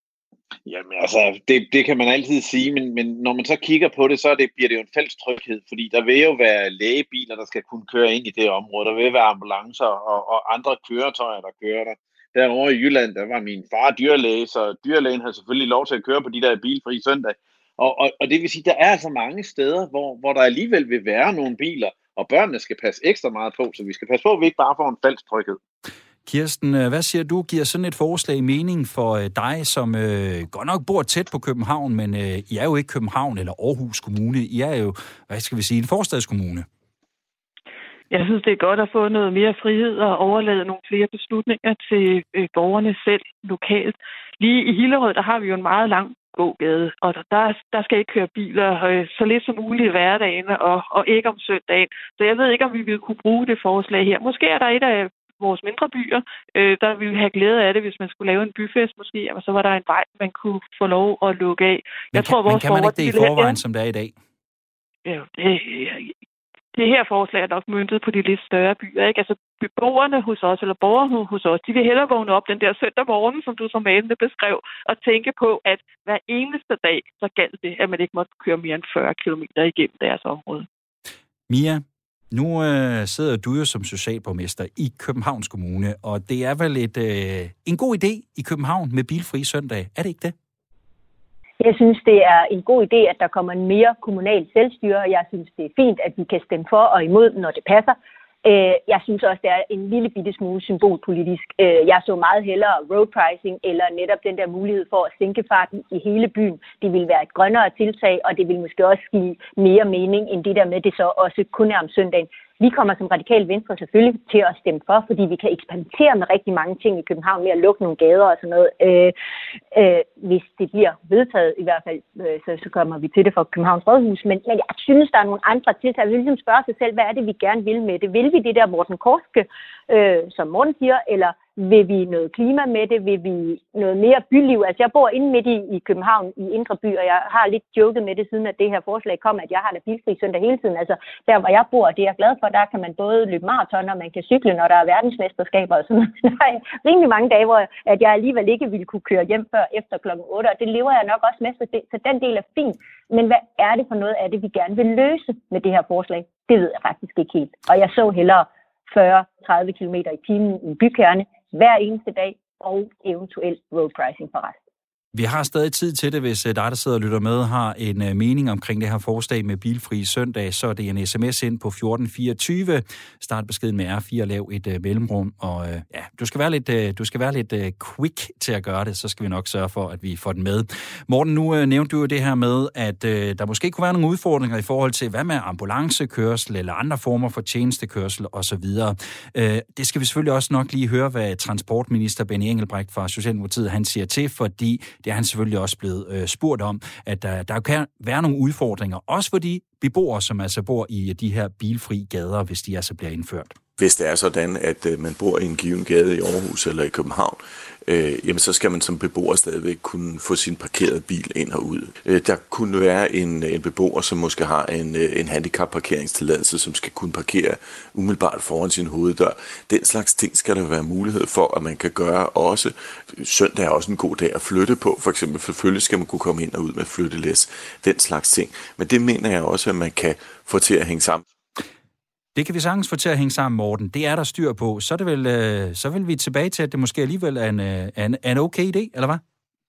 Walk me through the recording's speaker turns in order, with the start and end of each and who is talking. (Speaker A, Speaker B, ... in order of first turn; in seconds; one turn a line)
Speaker A: 0.7-25.6
Speaker B: 26.3-36.7
Speaker C: 38.1-63.6
Speaker B: 62.1-64.2
Speaker C: 65.0-66.2
Speaker C: 66.7-80.7
Speaker B: 81.5-90.3
Speaker D: 91.6-119.1
Speaker D: 119.7-164.6
Speaker B: 165.1-203.6
Speaker E: 203.8-231.2
Speaker B: 232.3-239.2